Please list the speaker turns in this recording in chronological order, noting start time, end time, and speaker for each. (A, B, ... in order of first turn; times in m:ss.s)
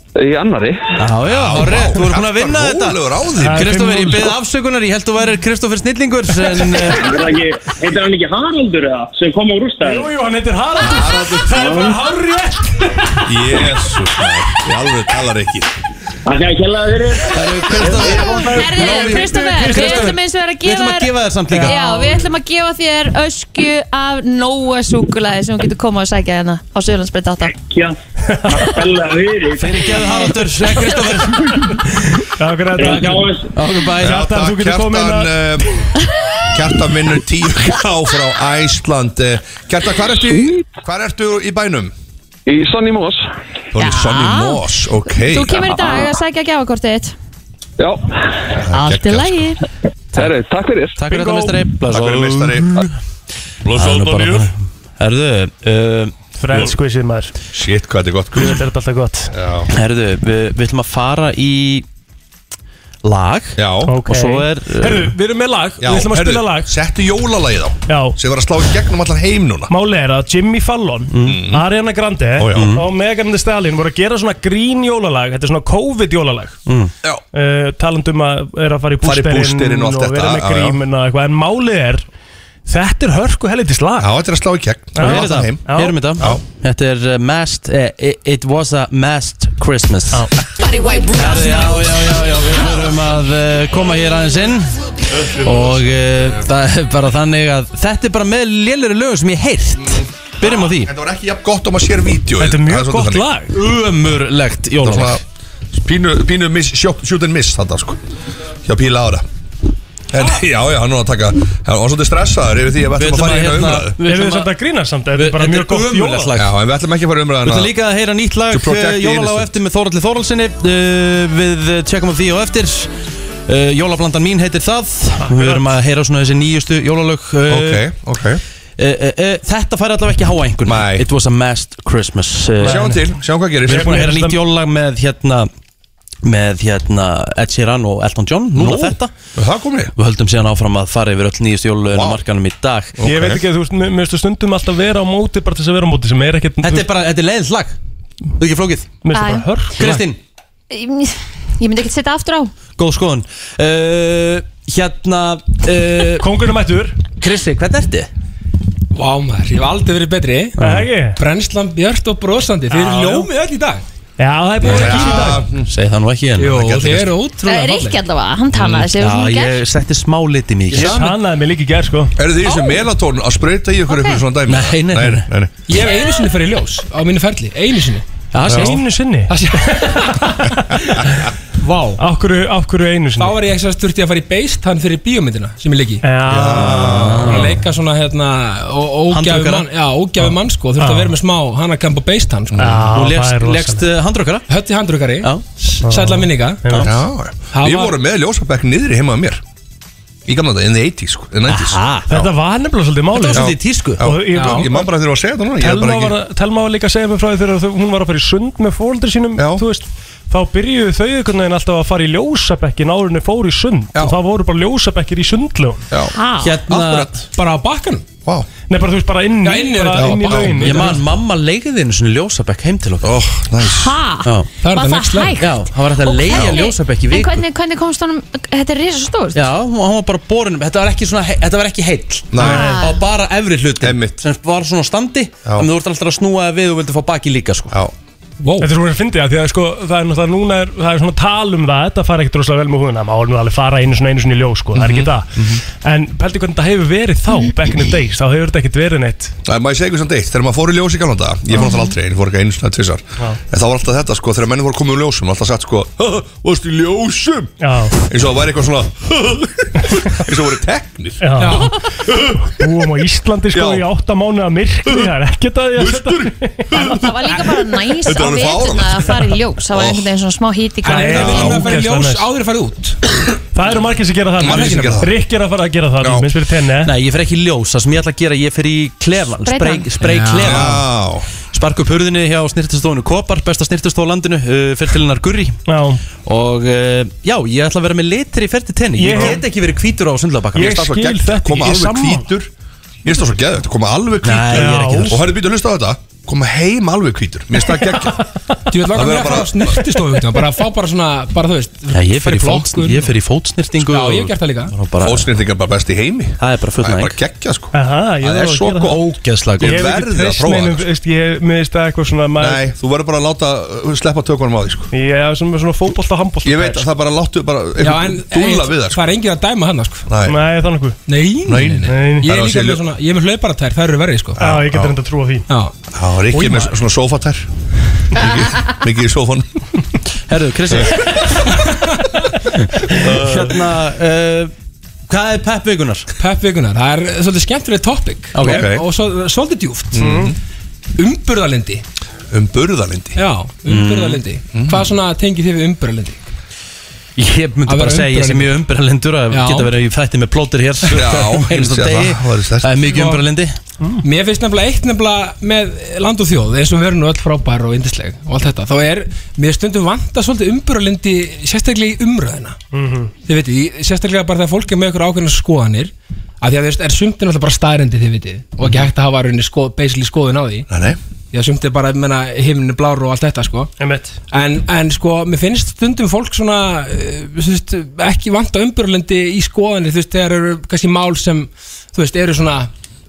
0:00.2-0:00.9 A
0:01.0-0:07.1 B
0:01.2-0:03.7 C
0:03.4-0:04.3 D
0:07.0-0:10.1 E
0:09.8-0:13.3 D
0:10.8-0:11.6 C
0:11.5-0:12.0 E
0:13.2-0:15.7 C
0:16.3-0:17.4 E
0:17.3-0:22.2 B
0:18.2-0:20.1 D
0:18.2-0:27.6 F
0:27.6-0:28.0 E
0:28.4-0:28.8 D
0:28.5-0:29.8 E
0:29.6-0:31.7 B
0:32.2-0:33.3 D
0:32.8-0:33.5 E
0:32.8-0:34.2 B
0:34.0-0:35.4 D
0:34.0-0:35.7 C
0:36.5-0:41.9 C
0:42.5-0:43.2 A
0:43.7-0:45.7 C
0:43.8-0:47.2 F
0:47.8-0:48.0 A
0:48.6-0:49.5 C
0:48.7-0:49.6 F
0:50.2-0:51.0 A
0:51.0-0:52.9 B
0:51.1-0:51.5 D
0:51.8-0:52.9 C
0:53.6-0:54.5 C
0:53.7-0:56.2 B
0:56.4-0:57.4 D
0:57.5-0:58.6 C
0:58.4-0:59.3 D
0:59.3-0:59.7 C
0:59.7-1:01.9 B
1:03.0-1:05.1 B
1:03.6-1:04.0 C
1:03.8-1:06.7 D
1:05.8-1:09.7 C
1:07.9-1:08.2 D
1:09.7-1:16.6 D
1:11.1-1:11.4 B
1:11.2-1:11.6 C
1:12.4-1:12.8 C
1:12.5-1:12.8 B
1:16.7-1:16.9 B
1:17.3-1:22.0 D
1:19.0-1:20.8 C
1:22.7-1:24.1 D
1:24.0-1:25.6 C
1:25.0-1:26.2 D
1:25.0-1:30.3 B
1:30.6-1:31.7 F
1:31.1-1:34.7 B
1:35.3-1:40.9 B
1:40.5-1:43.3 C
1:42.4-1:43.5 D
1:43.5-1:45.2 B
1:44.8-1:45.2 C
1:45.8-1:48.0 C
1:48.6-1:49.3 C
1:50.1-1:54.0 C
1:53.0-1:54.5 B
1:54.0-1:56.3 D
1:55.2-1:56.5 B
1:56.4-1:57.7 C
1:57.4-2:02.9 B
1:58.5-1:59.5 C
2:03.5-2:07.9 B
2:05.2-2:05.7 D
2:07.5-2:08.4 C
2:08.8-2:12.9 B
2:10.7-2:11.0 C
2:12.6-2:14.4 D
2:12.6-2:14.1 C
2:13.7-2:15.5 B
2:16.2-2:19.1 B
2:18.6-2:19.9 C
2:20.0-2:23.0 B
2:21.9-2:22.2 C
2:23.0-2:23.4 C
2:23.0-2:26.9 D
2:26.6-2:27.8 B
2:28.4-2:28.9 B
2:29.0-2:30.0 D
2:29.1-2:29.5 F
2:29.8-2:30.2 B
2:30.7-2:32.5 F
2:32.8-2:36.2 B
2:36.2-2:37.0 D
2:37.2-2:38.1 B
2:38.9-2:40.6 G
2:40.6-2:40.9 B
2:40.6-2:41.2 D
2:41.2-2:43.8 G
2:42.8-2:43.3 D
2:44.2-2:45.5 D
2:44.6-2:45.7 C
2:44.7-2:45.3 G
2:45.7-2:46.7 B
2:46.4-2:48.0 G
2:46.4-2:47.1 C
2:47.4-2:49.6 F
2:48.5-2:51.0 B
2:50.8-2:52.2 D
2:52.2-2:55.5 C
2:52.5-2:52.8 F
2:53.9-2:54.2 F
2:54.5-2:55.3 B
2:55.7-2:58.1 G
2:58.3-2:58.8 B
2:58.5-3:01.0 D
2:59.3-3:00.2 G
3:01.6-3:02.0 G
3:02.0-3:03.4 D
3:03.2-3:06.0 G
3:06.0-3:07.4 D
3:06.3-3:07.4 C
3:06.7-3:07.6 B
3:07.3-3:12.6 G
3:09.1-3:09.7 B
3:10.8-3:11.2 D
3:12.6-3:13.8 D
3:12.9-3:14.5 B
3:14.5-3:15.3 G
3:15.8-3:16.9 D
3:15.9-3:16.6 G
3:16.8-3:19.4 C
3:17.5-3:18.0 G
3:20.3-3:22.3 C
3:21.5-3:22.1 B
3:22.1-3:24.9 D
3:23.1-3:24.1 B
3:23.3-3:26.2 C
3:24.3-3:24.6 G
3:25.6-3:35.8 D
3:29.4-3:29.6 C
3:35.9-3:36.2 C
3:36.1-3:36.6 F
3:36.4-3:37.2 B
3:36.7-3:37.2 C
3:37.3-3:38.1 G
3:38.7-3:41.0 D
3:39.4-3:40.9 G
3:39.9-3:40.7 C
3:40.6-3:43.1 B
3:43.0-3:44.0 C
3:43.6-3:49.4 F
3:44.6-3:45.4 G
3:45.4-3:47.5 B
3:49.3-3:57.8 B
3:52.3-3:52.7 C
3:52.4-3:53.0 F
3:53.8-3:54.2 C
3:58.4-3:58.7 G
3:58.6-4:09.4 D
4:04.8-4:05.6 C
4:09.5-4:17.5 C
4:17.6-4:18.0 D
4:18.1-4:21.5 C
4:21.2-4:21.8 D
4:21.4-4:21.8 G
4:22.1-4:22.5 C
4:22.4-4:26.7 D
4:23.5-4:23.8 C
4:25.8-4:30.1 C
4:26.7-4:31.3 F
4:30.8-4:33.0 G
4:30.8-4:32.3 D
4:31.1-4:31.7 C
4:33.5-4:36.9 D
4:34.4-4:35.2 C
4:34.5-4:35.0 G
4:36.0-4:36.3 C
4:36.8-4:40.9 B
4:39.4-4:39.9 F
4:40.2-4:41.3 C
4:41.5-4:45.6 B
4:45.7-4:46.0 D
4:46.2-4:50.9 B
4:49.0-4:49.4 D
4:49.1-4:49.4 C
4:50.6-4:52.3 D
4:50.6-4:52.5 C
4:53.0-4:58.2 C
4:54.2-4:55.2 B
4:54.5-4:55.2 D
4:57.7-4:58.2 D
4:58.7-5:03.1 G
4:58.9-4:59.8 C
5:01.9-5:05.3 B
5:03.8-5:04.7 G
5:05.0-5:09.0 C
5:06.4-5:07.2 B
5:07.7-5:09.0 D
5:08.9-5:09.8 B
5:09.6-5:10.9 C
5:09.6-5:12.6 D
5:12.4-5:14.9 C
5:14.9-5:16.9 D
5:16.4-5:19.0 C
5:17.8-5:20.0 G
5:20.1-5:20.4 C
5:20.2-5:21.0 D
5:21.1-5:24.4 G
5:21.5-5:22.8 C
5:21.8-5:22.3 D
5:24.4-5:25.0 C
5:24.4-5:25.4 D
5:25.9-5:27.5 C
5:26.3-5:26.7 G
5:28.1-5:29.5 C
5:30.3-5:31.5 B
5:32.5-5:34.5 B
5:33.0-5:33.4 C
5:35.1-5:36.1 B
5:36.2-5:40.2 G
5:38.3-5:38.7 B
5:38.4-5:38.8 C
5:39.9-5:40.4 C
5:40.0-5:40.3 D
5:41.0-5:41.8 G
5:42.3-5:43.2 C
5:43.2-5:46.3 G
5:43.7-5:44.2 B
5:44.5-5:44.9 C
5:47.2-5:53.6 B
5:47.7-5:48.5 G
5:49.3-5:49.7 G
5:50.9-5:52.8 C
5:52.9-5:53.2 G
5:54.0-6:02.6 G
6:02.7-6:03.1 D
6:03.3-6:10.7 G
6:10.7-6:11.0 C
6:11.3-6:13.7 G
6:13.8-6:14.2 D
6:14.3-6:22.7 G